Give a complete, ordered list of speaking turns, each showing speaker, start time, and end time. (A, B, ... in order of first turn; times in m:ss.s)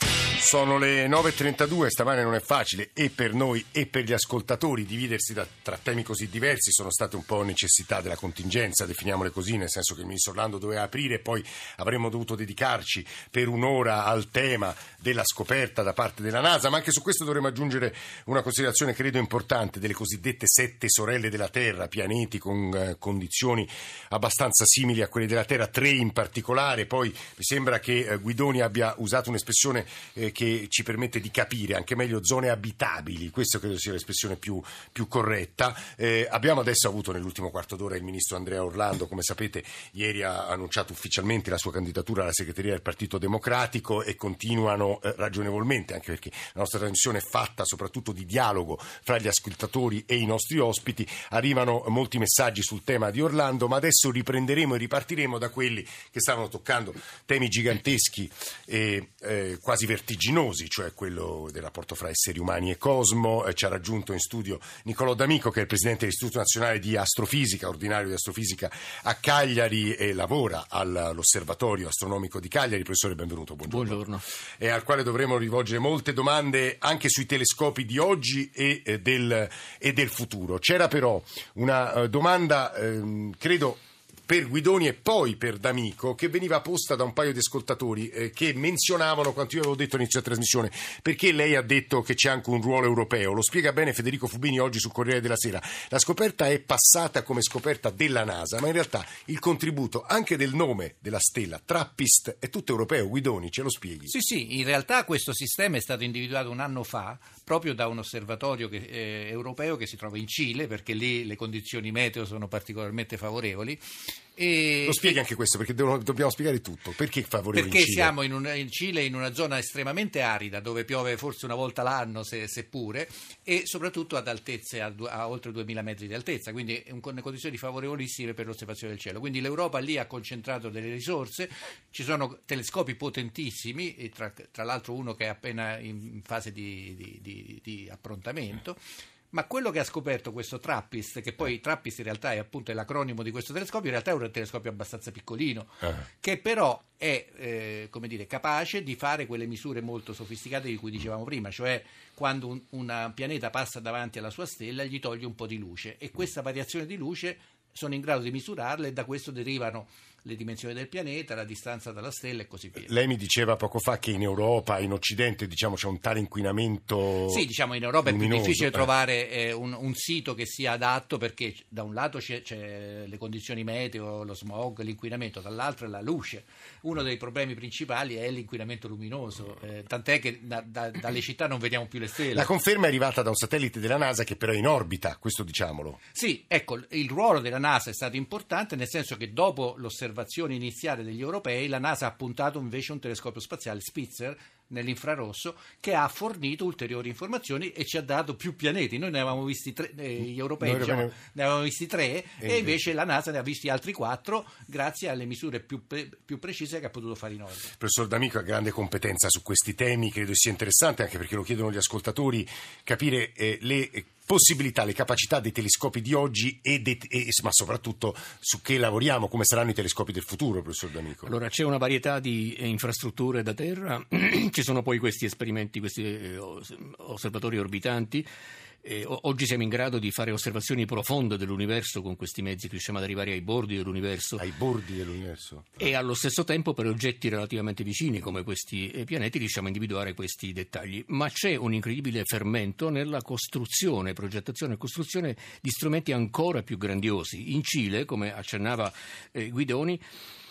0:00.4-1:14.0 A
1:13.7-1:14.2 B
1:14.6-1:44.1 A
1:44.1-1:53.8 C
1:54.4-1:55.1 C
1:54.8-1:58.2 A
1:57.5-2:18.8 C
2:19.3-2:42.9 C
2:42.8-2:47.5 A
2:47.3-3:02.5 C
2:48.0-2:48.9 A
3:02.3-3:06.0 A
3:06.1-3:27.7 C
3:20.6-3:21.2 A
3:22.4-3:22.7 A
3:27.8-3:41.3 A
3:41.3-3:48.3 B
3:48.8-3:54.4 B
3:54.4-3:55.9 A
3:55.8-4:10.0 B